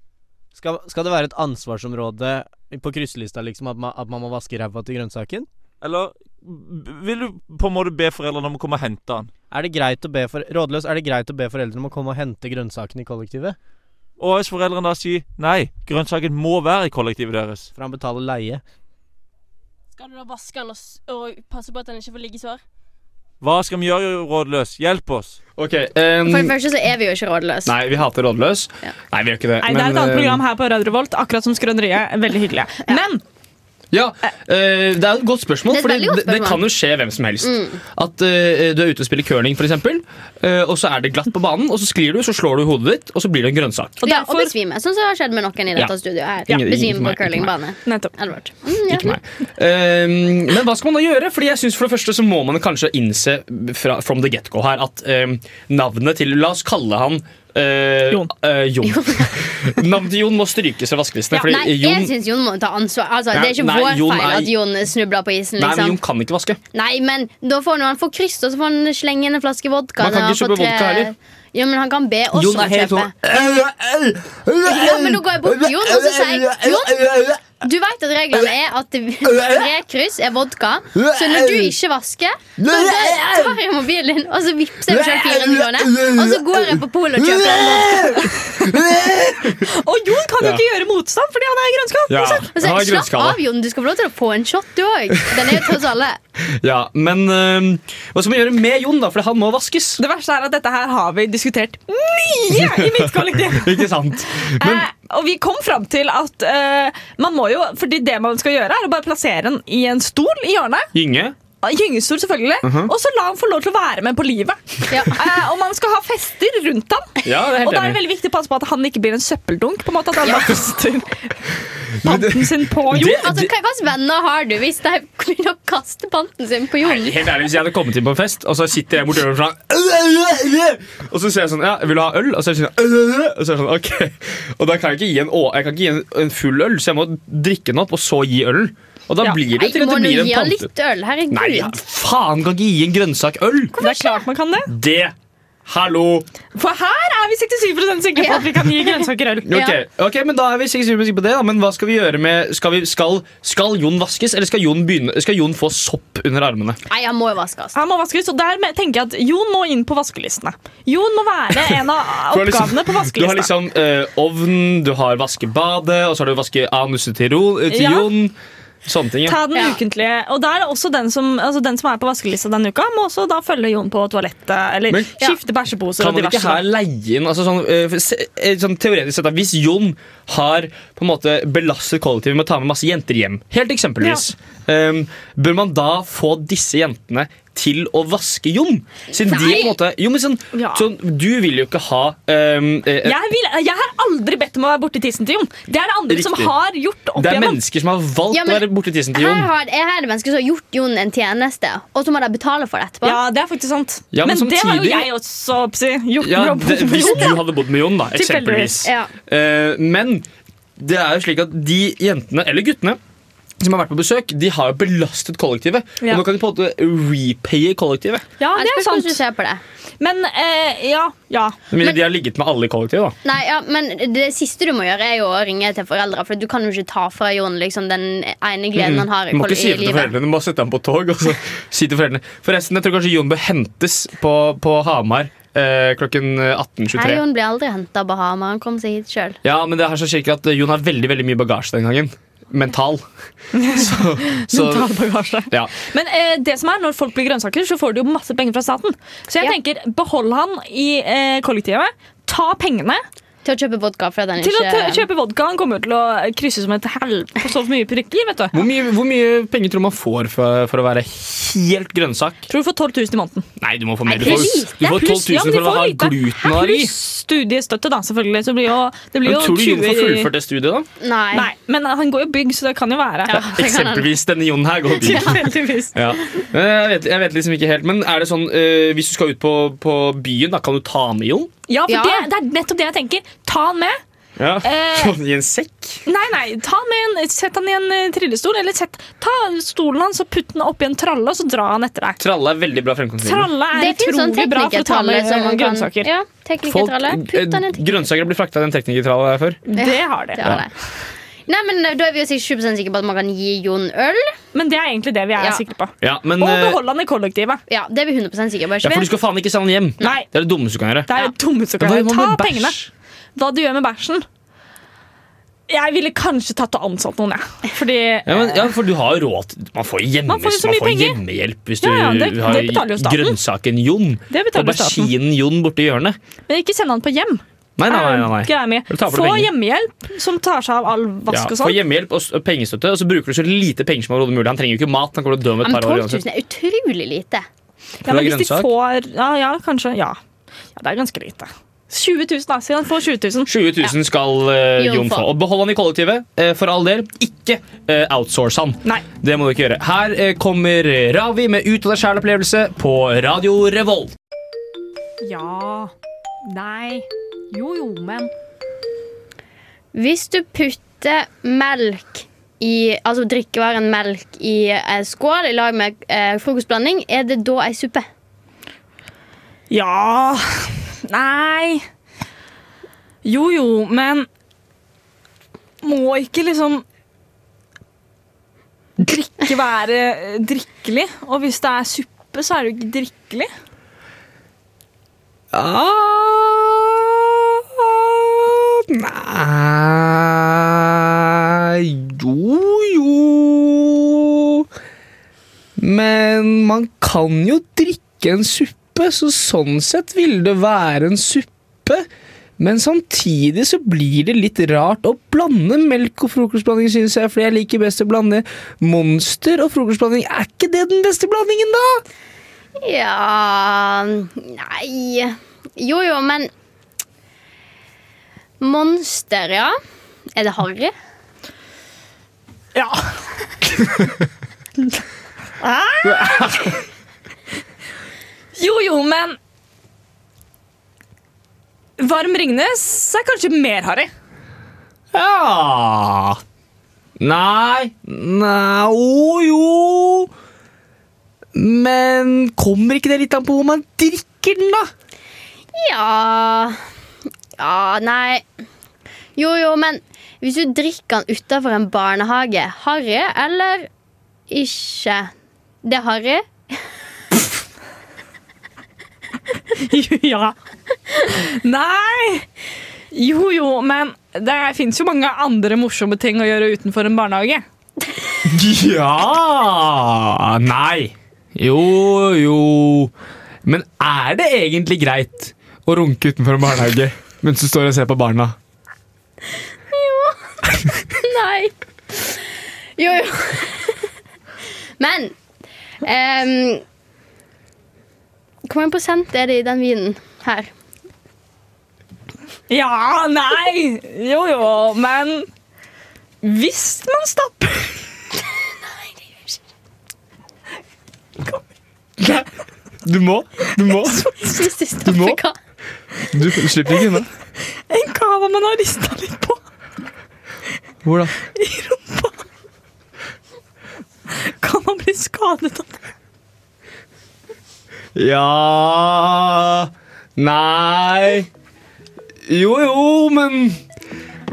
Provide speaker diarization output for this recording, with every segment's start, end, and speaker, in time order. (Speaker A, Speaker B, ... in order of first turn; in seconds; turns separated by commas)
Speaker A: 0.6-5.5, Speaker B: 5.8-9.3, Speaker A: 9.5-13.6, Speaker B: 14.2-17.7, Speaker A: 17.8-18.6, Speaker C: 19.9-22.6, Speaker B: 23.4-25.4, Speaker D: 25.6-26.6, Speaker E: 26.2-27.7, Speaker D: 27.7-30.4, Speaker F: 29.6-33.2, Speaker D: 33.9-44.0, Speaker E: 35.7-36.6, Speaker E: 37.4-37.8, Speaker F: 44.0-44.5, Speaker E: 44.0-49.2, Speaker D: 46.5-47.5, Speaker F: 47.9-48.1, Speaker D: 48.9-62.1, Speaker E: 58.9-59.3, Speaker E: 61.3-66.0, Speaker D: 63.3-64.5, Speaker D: 65.6-66.6, Speaker E: 66.7-73.6, Speaker D: 70.0-71.1, Speaker D: 72.3-77.5, Speaker E: 74.6-88.4, Speaker D: 79.2-79.7, Speaker D: 81.0-81.7, Speaker D: 82.6-83.5, Speaker D: 84.9-89.7, Speaker F: 89.6-92.5, Speaker D: 92.1-93.4, Speaker E: 92.6-96.2, Speaker D: 96.4-100.0, Speaker F: 100.0-103.9, Speaker D: 102.5-104.9, Speaker F: 104.4-110.9, Speaker D: 110.9-111.4, Speaker F: 111.6-121.4, Speaker D: 112.6-112.9, Speaker E: 114.9-115.2, Speaker D: 117.2-118.0, Speaker D: 120.3-120.5, Speaker F: 122.0-123.2, Speaker D: 122.0-123.5, Speaker E: 123.0-127.2, Speaker D: 126.8-140.7, Speaker E: 139.5-141.8, Speaker D: 141.3-143.8, Speaker F: 143.8-144.7, Speaker E: 143.8-144.1, Speaker D: 144.7-145.1, Speaker D: 145.7-146.3, Speaker F: 146.6-149.6, Speaker E: 148.2-149.7, Speaker D: 149.4-156.8, Speaker E: 156.9-157.8, Speaker F: 157.8-163.5, Speaker D: 162.3-169.4, Speaker F: 167.7-168.1, Speaker F: 169.3-176.7, Speaker D: 174.9-175.2, Speaker D: 176.0-193.2, Speaker E: 189.3-189.7, Speaker F: 190.5-190.9, Speaker F: 193.0-197.6, Speaker D: 196.1-196.5, Speaker D: 197.2-199.5, Speaker E: 198.3-203.2, Speaker F: 203.0-207.5, Speaker D: 204.1-205.1, Speaker D: 206.2-213.0, Speaker F: 208.1-208.8, Speaker E: 208.8-209.1, Speaker D: 213.6-218.2, Speaker F: 218.4-219.2, Speaker E: 218.6-219.6, Speaker F: 220.0-221.6, Speaker D: 221.7-223.2, Speaker E: 223.2-230.1, Speaker D: 228.8-237.2, Speaker E: 236.9-239.4, Speaker D: 239.4-243.0, Speaker F: 243.5-253.0, Speaker D: 243.7-244.9, Speaker E: 253.4-255.0, Speaker F: 254.4-258.6, Speaker D: 258.5-262.5, Speaker F: 262.5-263.5, Speaker D: 263.6-266.9, Speaker E: 264.1-264.7, Speaker F: 264.2-270.3, Speaker D: 269.2-270.9, Speaker E: 271.0-271.5, Speaker F: 271.3-273.4, Speaker E: 273.3-274.1, Speaker D: 273.3-275.4, Speaker E: 275.0-275.4, Speaker F: 275.0-275.9, Speaker D: 275.9-281.5, Speaker F: 281.7-284.0, Speaker E: 281.9-282.3, Speaker D: 284.4-286.0, Speaker F: 284.6-285.1, Speaker F: 286.1-292.2, Speaker D: 292.2-293.5, Speaker F: 293.2-296.1, Speaker E: 293.7-297.9, Speaker D: 296.6-299.6, Speaker F: 299.7-300.6, Speaker E: 299.8-300.7, Speaker E: 301.5-304.4, Speaker F: 304.5-307.6, Speaker D: 306.0-306.8, Speaker E: 307.7-309.1, Speaker D: 308.8-311.1, Speaker F: 310.0-310.3, Speaker F: 311.1-312.8, Speaker D: 311.8-312.9, Speaker F: 313.4-314.2, Speaker F: 315.7-318.7, Speaker D: 318.3-326.2, Speaker F: 320.3-321.2, Speaker F: 321.8-323.4, Speaker F: 324.3-325.1, Speaker F: 326.5-331.8, Speaker D: 327.8-329.5, Speaker D: 331.3-336.2, Speaker E: 335.6-337.5, Speaker F: 338.0-340.2, Speaker D: 338.1-338.7, Speaker F: 340.8-343.5, Speaker D: 343.5-354.1, Speaker E: 344.8-345.3, Speaker F: 355.2-355.9, Speaker F: 356.5-358.3, Speaker E: 359.9-368.1, Speaker F: 369.7-371.9, Speaker F: 373.2-374.3, Speaker F: 375.8-376.8, Speaker F: 379.0-383.5, Speaker D: 385.5-394.7, Speaker D: 395.8-402.1, Speaker D: 402.6-412.0, Speaker E: 412.8-416.5, Speaker E: 418.6-419.8, Speaker E: 420.4-420.9, Speaker F: 422.8-423.2, Speaker F: 423.7-424.0, Speaker F: 425.6-426.8, Speaker D: 426.0-426.7, Speaker F: 428.6-429.4, Speaker F: 432.0-434.1, Speaker D: 435.1-436.4, Speaker D: 437.2-440.3, Speaker D: 441.5-444.9, Speaker E: 445.7-446.8, Speaker E: 447.6-448.4, Speaker E: 449.4-453.9, Speaker E: 454.5-455.3, Speaker E: 455.8-456.5, Speaker F: 459.7-460.6, Speaker F: 461.2-462.5, Speaker F: 463.1-467.6, Speaker D: 468.4-473.1, Speaker D: 473.6-478.6, Speaker E: 479.9-480.4, Speaker E: 481.1-484.0, Speaker E: 485.0-485.3, Speaker E: 486.0-486.8, Speaker E: 488.7-490.7, Speaker F: 492.7-495.5, Speaker F: 496.4-498.0, Speaker D: 502.2-502.5, Speaker D: 503.0-504.3, Speaker F: 504.1-504.7, Speaker E: 504.4-505.6, Speaker D: 505.0-505.4, Speaker D: 506.3-507.3, Speaker F: 507.9-509.6, Speaker D: 511.0-511.4, Speaker F: 511.5-512.4, Speaker F: 514.3-516.0, Speaker D: 518.1-521.5, Speaker D: 522.5-523.8